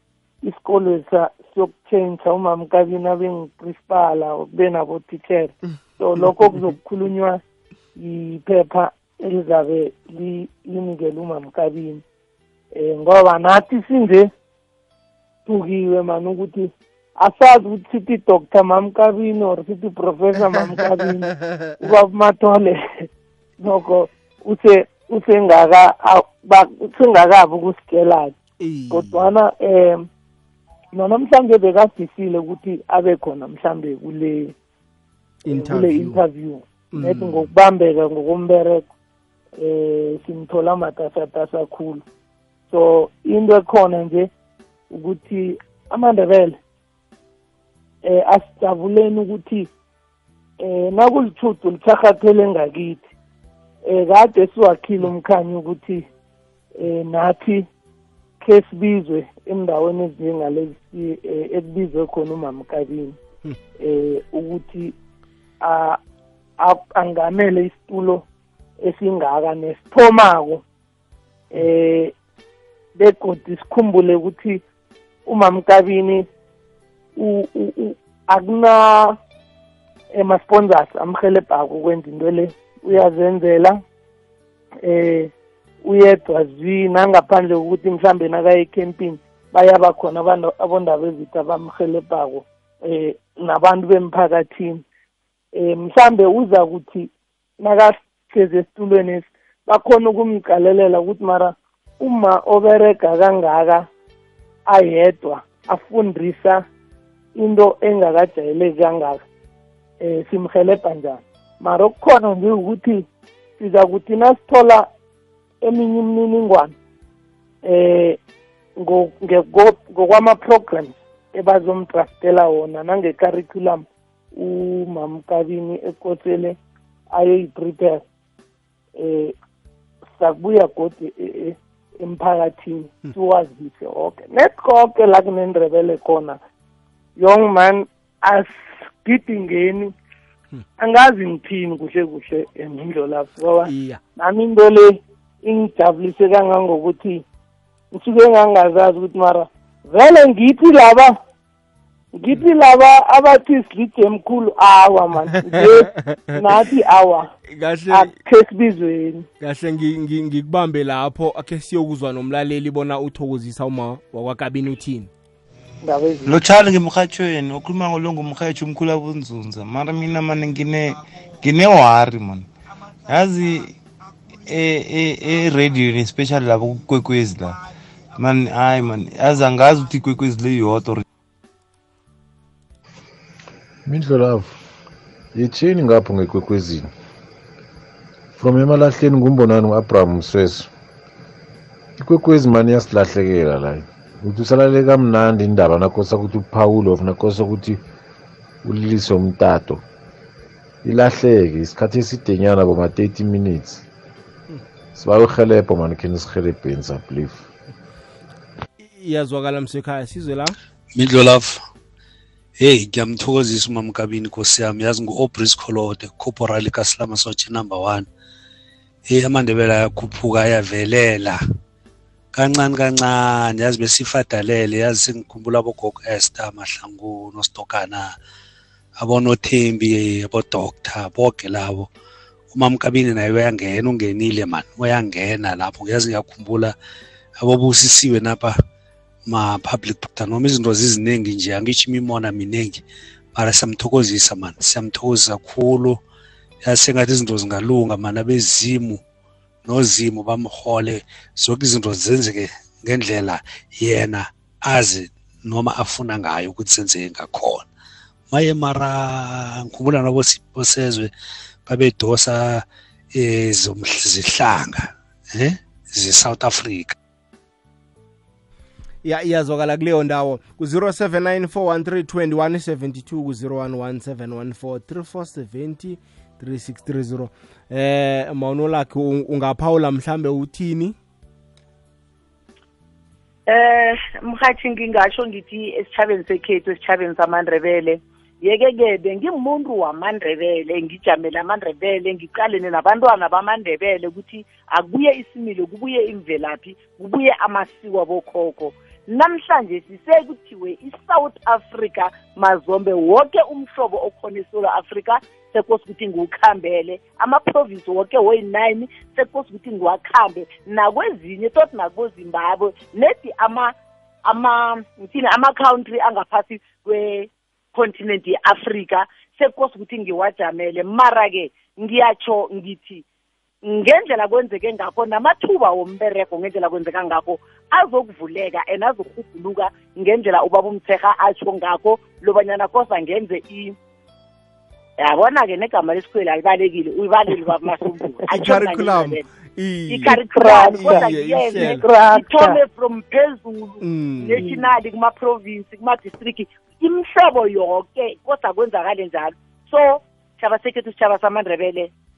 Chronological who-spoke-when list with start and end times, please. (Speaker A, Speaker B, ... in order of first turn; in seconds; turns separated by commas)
Speaker A: 0.4-7.4, Speaker A: 8.0-12.0, Speaker A: 12.7-14.3, Speaker A: 15.4-23.1, Speaker A: 23.6-28.4, Speaker B: 28.6-29.3, Speaker A: 28.9-30.1, Speaker A: 30.9-34.5, Speaker B: 35.4-36.2, Speaker A: 35.5-38.9, Speaker B: 36.9-37.5, Speaker A: 39.6-42.0, Speaker A: 42.7-44.3, Speaker A: 44.9-46.6, Speaker A: 48.0-49.7, Speaker A: 50.6-53.0, Speaker A: 53.8-56.1, Speaker A: 56.7-57.6, Speaker A: 58.4-63.2, Speaker A: 63.8-64.9, Speaker A: 65.6-66.0, Speaker A: 66.6-68.2, Speaker A: 68.8-70.6, Speaker A: 71.5-72.1, Speaker A: 73.0-74.6, Speaker A: 75.2-76.3, Speaker A: 77.2-79.2, Speaker A: 80.1-83.8, Speaker A: 84.8-85.3, Speaker A: 85.8-94.8, Speaker A: 95.5-103.9, Speaker A: 104.7-106.7, Speaker A: 107.3-109.2, Speaker A: 110.0-113.0, Speaker A: 113.6-114.9, Speaker A: 115.6-116.7, Speaker A: 117.6-118.2, Speaker A: 118.8-126.6, Speaker A: 127.1-128.0, Speaker A: 128.9-129.3, Speaker A: 130.1-136.4, Speaker A: 137.2-139.9, Speaker A: 140.8-147.2, Speaker B: 143.7-144.0, Speaker A: 147.9-151.2, Speaker A: 152.1-157.3, Speaker B: 155.9-156.3, Speaker B: 157.5-158.1, Speaker A: 157.9-159.3, Speaker B: 159.4-165.1, Speaker A: 165.8-166.3, Speaker C: 166.2-172.5, Speaker C: 173.1-173.7, Speaker C: 174.4-177.6, Speaker C: 178.2-181.0, Speaker D: 183.8-184.5, Speaker D: 185.3-186.9, Speaker D: 188.4-190.7, Speaker D: 192.0-197.8, Speaker D: 198.6-199.8, Speaker D: 200.8-203.8, Speaker D: 204.9-207.4, Speaker B: 208.8-210.5, Speaker E: 210.9-211.6, Speaker E: 212.6-218.1, Speaker E: 219.1-221.4, Speaker E: 222.3-228.1, Speaker E: 229.0-231.9, Speaker E: 232.5-236.7, Speaker E: 237.4-238.6, Speaker E: 239.3-242.8, Speaker E: 243.3-246.0, Speaker E: 246.6-249.0, Speaker E: 249.6-257.6, Speaker E: 258.3-261.1, Speaker E: 261.6-266.9, Speaker B: 269.0-280.9, Speaker F: 283.5-313.7, Speaker F: 314.2-323.0, Speaker F: 323.6-333.8, Speaker F: 335.0-339.2, Speaker B: 338.3-340.2, Speaker F: 339.9-351.9, Speaker A: 340.1-342.6, Speaker B: 340.8-341.8, Speaker B: 343.8-344.4, Speaker A: 344.4-344.6